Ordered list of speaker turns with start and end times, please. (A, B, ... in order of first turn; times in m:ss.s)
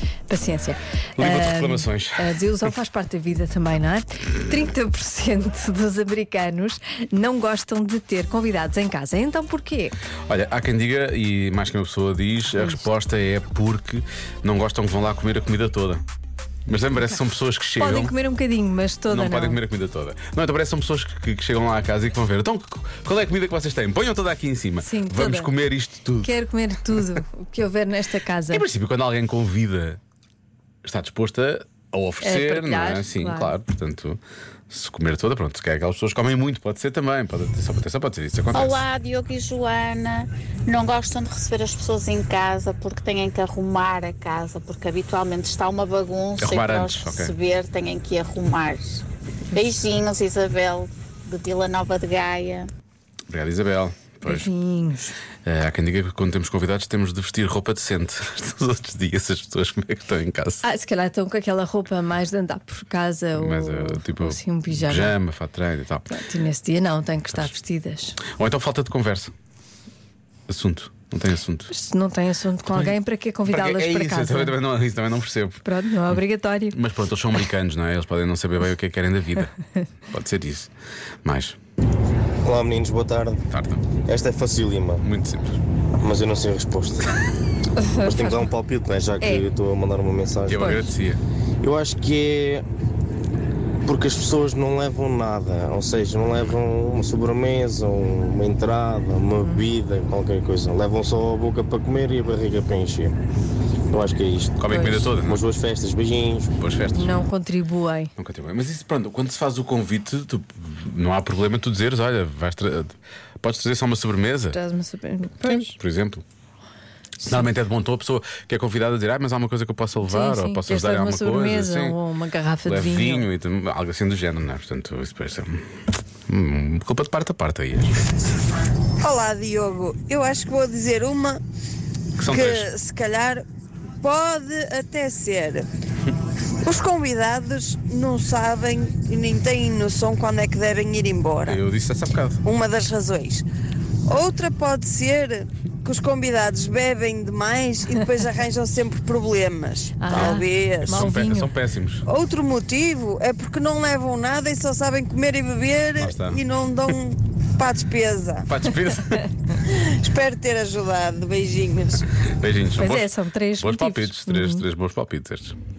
0:00.3-0:10.0 A
0:01.2-0:02.3 B
0:10.3-0:16.0 B
0:16.6-0:18.1 B
0:17.8-0:19.6 A
0:19.1-0:26.3 B
0:24.8-0:25.5 A
0:26.2-0:28.7 A
0:26.9-0:27.2 B
0:28.5-0:30.0 B
0:30.8-0:38.9 B
0:32.2-0:33.5 A
0:38.5-0:49.0 C
0:46.4-0:47.3 B
0:49.5-0:52.7 C
0:53.3-0:54.5 B
0:54.3-0:55.2 A
0:55.4-1:00.6 B
1:00.6-1:05.2 A
1:03.4-1:06.1 B
1:06.1-1:08.2 A
1:08.3-1:09.3 B
1:10.5-1:11.7 B
1:11.7-1:14.6 A
1:12.6-1:13.0 B
1:13.5-1:19.5 B
1:15.6-1:16.8 A
1:20.1-1:20.7 B
1:21.2-1:21.6 B
1:22.4-1:23.4 D
1:23.5-1:23.8 B
1:24.0-1:25.0 D
1:25.0-1:25.6 B
1:26.0-1:27.1 D
1:27.8-1:28.5 A
1:28.0-1:30.9 D
1:30.5-1:31.2 B
1:30.6-1:30.9 A
1:31.6-1:32.6 D
1:33.8-1:43.1 D
1:39.4-1:39.7 A
1:43.9-1:46.5 D
1:44.6-1:45.4 B
1:44.7-1:45.0 A
1:46.5-1:47.1 B
1:47.0-1:48.1 A
1:48.2-1:54.6 B
1:54.5-1:55.7 A
1:55.4-1:56.2 B
1:57.2-2:02.0 B
2:00.0-2:03.3 A
2:02.6-2:05.6 B
2:06.3-2:08.0 B
2:09.0-2:11.4 E
2:12.2-2:12.7 B
2:12.3-2:13.4 E
2:14.0-2:15.7 E
2:16.6-2:21.6 E
2:21.4-2:22.4 B
2:22.4-2:23.4 E
2:24.1-2:31.1 E
2:30.0-2:31.5 A
2:30.8-2:32.0 B
2:32.0-2:38.5 E
2:36.0-2:36.4 B
2:38.5-2:39.2 B
2:39.6-2:42.0 E
2:42.2-2:45.6 B
2:42.8-2:44.6 A